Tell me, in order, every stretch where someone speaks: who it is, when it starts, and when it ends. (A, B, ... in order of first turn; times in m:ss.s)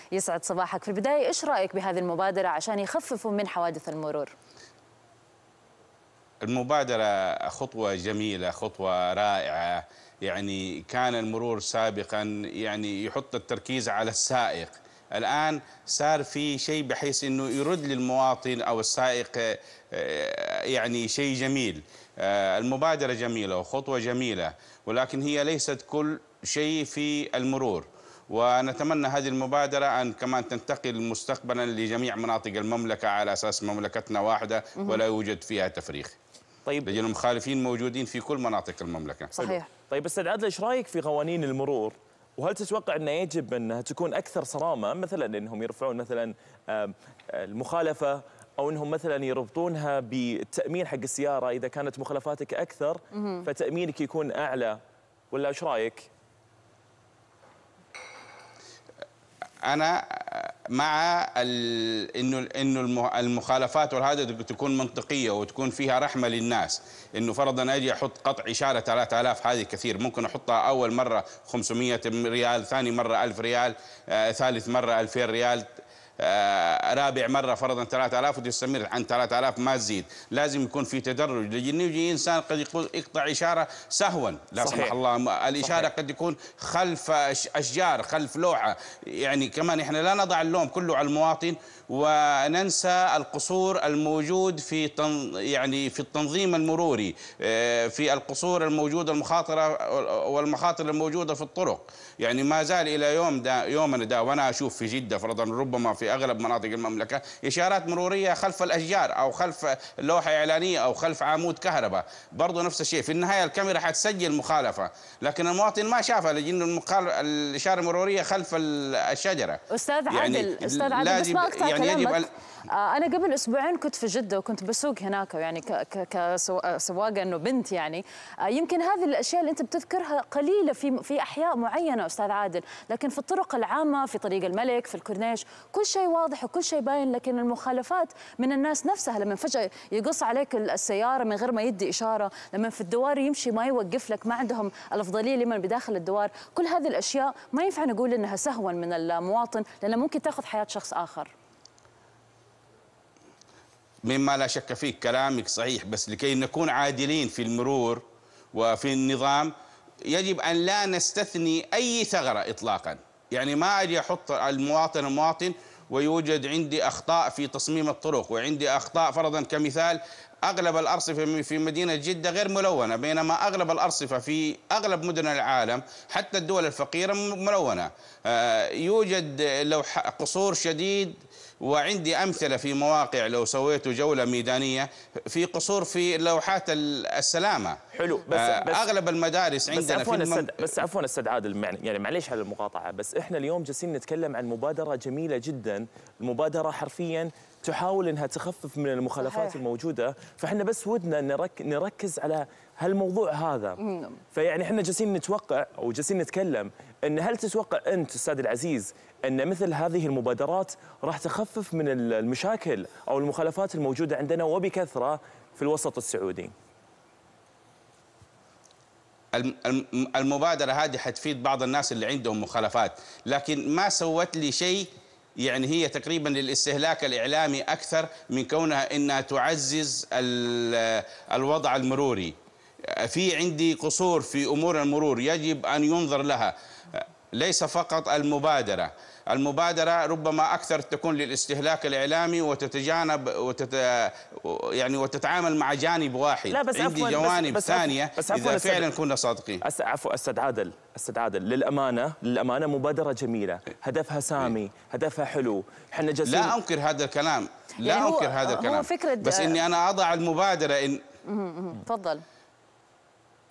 0:00.1-0:04.3 A
0:06.4-0:36.2 B
0:36.7-0:37.0 C
0:36.9-0:39.3 B
0:39.4-0:39.7 A
0:39.4-0:54.8 C
0:55.3-0:56.1 C
0:59.7-1:15.7 B
1:16.2-2:02.3 B
1:24.6-1:25.0 C
1:25.6-1:25.9 C
1:59.7-2:31.3 A
2:34.1-2:39.5 B
2:40.1-3:07.8 B
3:07.9-3:08.9 C
3:08.3-3:10.7 B
3:09.7-3:23.8 C
3:19.2-3:19.6 A
3:24.3-3:36.5 C
3:39.4-3:44.9 B
3:45.4-3:52.4 B
3:53.1-4:09.6 B
4:06.5-4:08.9 C
4:09.6-4:16.6 C
4:16.3-4:21.0 B
4:17.8-4:19.6 A
4:21.3-4:22.2 A